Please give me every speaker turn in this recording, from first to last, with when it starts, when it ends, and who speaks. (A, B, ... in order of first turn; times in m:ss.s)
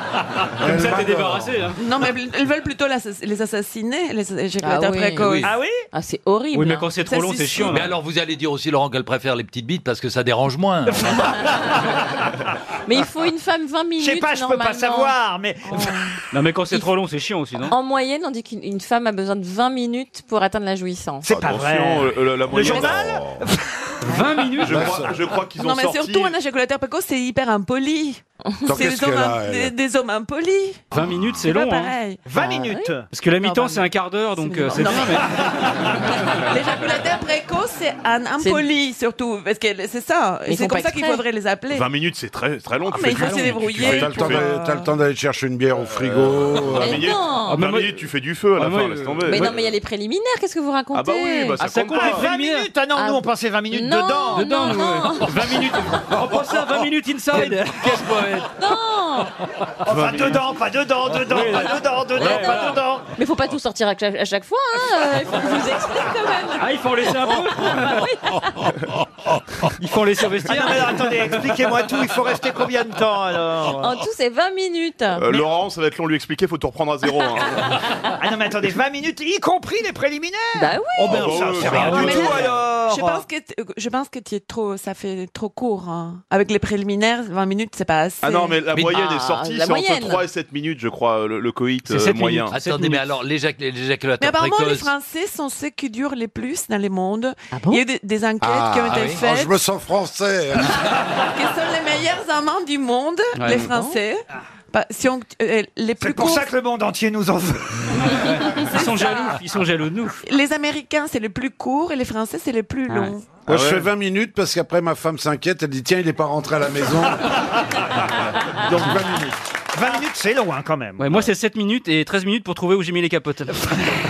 0:00.6-0:01.5 A
0:00.6-0:01.8 B
0:01.8-0:05.5 C
0:04.6-0:06.9 D
0:05.4-0:05.8 E
0:06.5-0:07.9 B
0:07.1-0:07.6 C
0:07.6-0:11.4 F
0:12.8-0:15.1 D
0:14.0-0:15.9 E
0:16.3-0:17.7 B
0:17.7-0:21.2 D
0:21.2-0:23.6 E
0:21.2-0:23.4 G
0:24.0-0:25.0 B
0:24.6-0:26.3 G
0:24.6-0:25.1 A
0:25.6-0:30.8 C
0:28.6-0:29.7 A
0:30.9-0:31.9 B
0:31.5-0:32.2 C
0:32.2-0:33.0 E
0:32.4-0:33.8 D
0:33.1-0:35.3 B
0:34.4-0:35.2 C
0:36.3-0:41.9 C
0:38.4-0:38.7 D
0:40.4-0:41.2 D
0:41.7-0:44.5 G
0:42.9-0:44.8 C
0:43.3-0:43.6 B
0:43.6-0:47.0 A
0:46.1-0:49.7 G
0:46.8-0:47.6 D
0:47.5-0:48.0 B
0:48.5-0:49.5 B
0:49.2-0:51.6 D
0:50.9-0:52.3 G
0:51.6-0:52.7 B
0:51.9-0:54.5 E
0:53.0-0:55.4 D
0:54.3-0:58.4 B
0:55.5-0:55.8 E
0:58.6-0:59.3 D
0:59.8-1:03.1 E
0:59.9-1:00.4 G
1:01.2-1:02.7 B
1:02.2-1:06.6 D
1:06.6-1:08.0 B
1:07.6-1:08.4 D
1:09.8-1:11.3 B
1:10.4-1:13.9 E
1:13.8-1:15.4 D
1:15.2-1:17.7 G
1:18.2-1:23.2 E
1:20.6-1:21.2 D
1:21.0-1:22.6 G
1:21.6-1:28.7 C
1:28.2-1:32.5 G
1:28.7-1:30.2 D
1:31.8-1:33.0 B
1:32.5-1:34.9 F
1:34.2-1:39.5 C
1:38.4-1:40.7 A
1:38.9-1:39.2 F
1:40.6-1:46.5 C
1:43.4-1:43.7 B
1:46.0-1:47.8 E
1:48.4-1:50.2 B
1:48.6-1:49.4 C
1:50.2-1:53.2 C
1:53.4-1:57.2 A
1:53.5-1:53.9 G
1:58.6-1:59.3 A
1:59.7-2:01.3 E
2:01.0-2:03.6 B